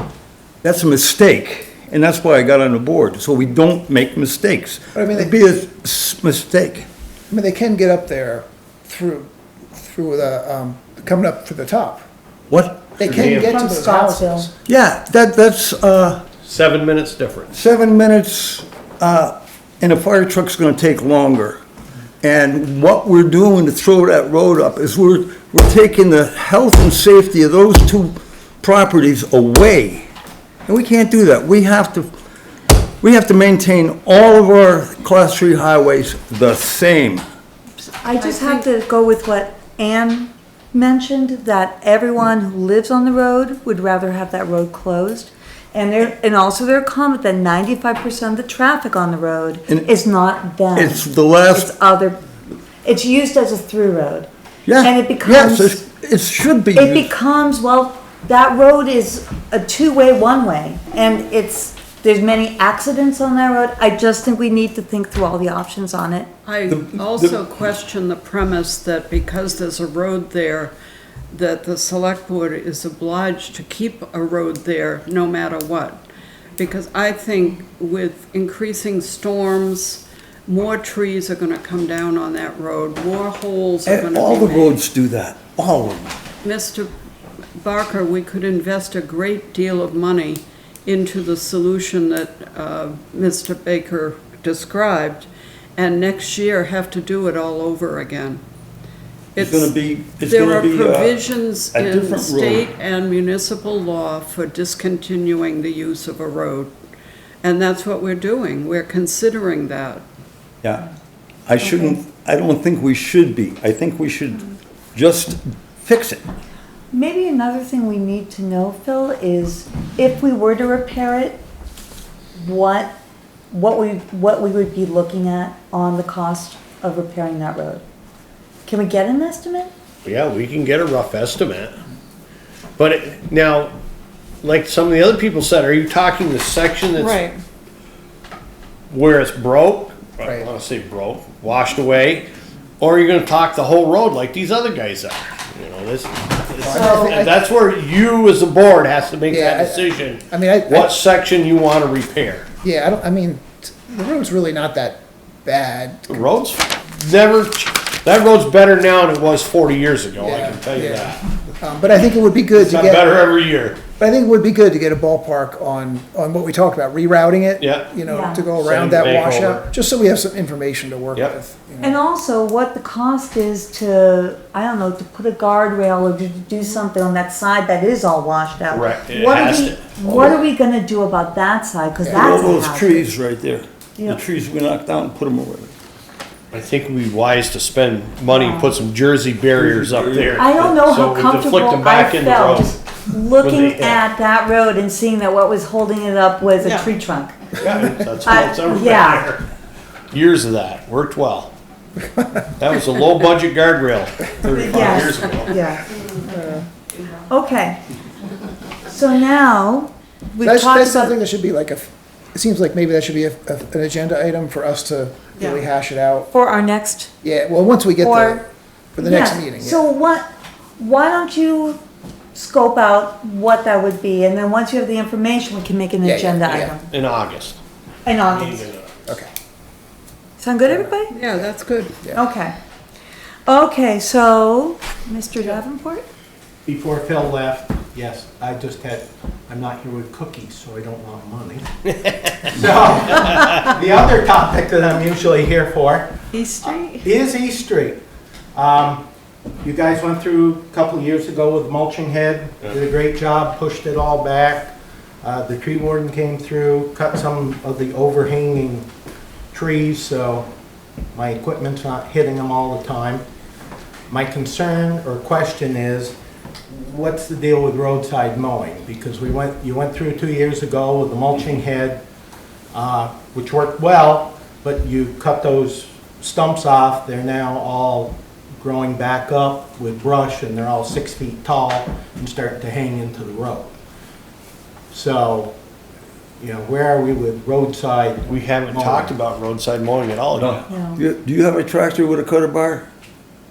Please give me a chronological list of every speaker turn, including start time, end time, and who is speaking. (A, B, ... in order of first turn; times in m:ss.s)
0:00.6-0:06.9 A
0:05.0-0:05.3 B
0:07.3-0:12.0 B
0:12.5-0:13.3 A
0:13.0-0:14.5 B
0:13.1-0:13.6 C
0:13.3-0:14.5 D
0:14.6-0:16.2 A
0:16.4-0:17.5 C
0:17.5-0:21.6 A
0:22.2-0:30.1 A
0:30.6-0:32.1 A
0:33.0-0:37.2 A
0:37.9-0:52.2 D
0:38.2-0:38.6 E
0:50.7-0:51.7 A
0:52.8-0:54.3 D
0:54.6-0:57.1 A
0:54.8-0:55.8 D
0:56.7-1:06.3 D
1:06.4-1:10.7 E
1:06.7-1:07.4 A
1:11.3-1:16.0 E
1:16.6-1:24.8 E
1:23.8-1:26.1 A
1:26.4-1:26.9 E
1:27.6-1:38.4 E
1:39.4-1:41.2 A
1:39.4-1:46.7 E
1:41.7-1:42.6 A
1:47.4-1:50.0 E
1:51.5-1:56.2 A
1:56.9-2:01.4 D
2:02.4-2:03.0 D
2:03.5-2:07.8 D
2:08.6-2:09.7 D
2:10.0-2:11.8 C
2:12.8-2:13.7 C
2:14.4-2:17.2 C
2:17.0-2:17.3 E
2:18.9-2:22.3 C
2:20.2-2:20.5 B
2:22.8-2:32.5 C
2:26.6-2:27.4 B
2:26.7-2:27.2 D
2:29.3-2:31.0 B
2:32.6-2:36.3 B
2:36.1-2:41.2 C
2:40.2-2:43.2 B
2:42.5-2:43.8 C
2:43.8-2:52.0 B
2:47.6-2:47.9 C
2:48.0-2:48.5 D
2:48.6-2:49.6 C
2:51.8-3:03.1 D
2:58.7-3:00.4 C
3:02.0-3:02.4 B
3:02.1-3:05.7 A
3:06.5-3:12.8 C
3:08.3-3:08.7 D
3:09.6-3:10.4 A
3:10.3-3:17.5 D
3:13.4-3:14.0 C
3:17.6-3:19.4 C
3:18.2-3:19.3 D
3:20.1-3:21.5 C
3:22.2-3:22.4 B
3:22.6-3:25.6 C
3:24.4-3:25.8 D
3:26.3-3:26.6 B
3:27.3-3:27.8 D
3:28.8-3:31.1 D
3:30.4-3:36.3 B
3:36.3-3:37.1 D
3:37.2-3:39.8 B
3:38.0-3:38.4 D
3:39.0-3:40.2 D
3:40.8-3:41.8 D
3:42.3-3:46.9 D
3:46.0-3:46.7 B
3:46.9-3:47.6 C
3:48.0-3:48.7 D
3:48.3-3:48.8 C
3:50.4-3:51.1 D
3:51.1-3:52.0 E
3:52.1-3:52.6 D
3:53.5-3:56.0 D
3:56.6-4:01.6 F
4:02.4-4:08.0 F
4:08.5-4:09.0 F
4:09.6-4:18.9 F
4:19.5-4:20.5 F
4:21.1-4:23.2 F
4:24.1-4:26.2 F
4:26.7-4:32.0 F
4:32.7-4:43.7 F
4:44.9-4:45.5 F
4:46.4-4:49.2 F
4:48.2-4:50.6 C
4:50.4-4:52.9 A
4:50.7-4:51.0 D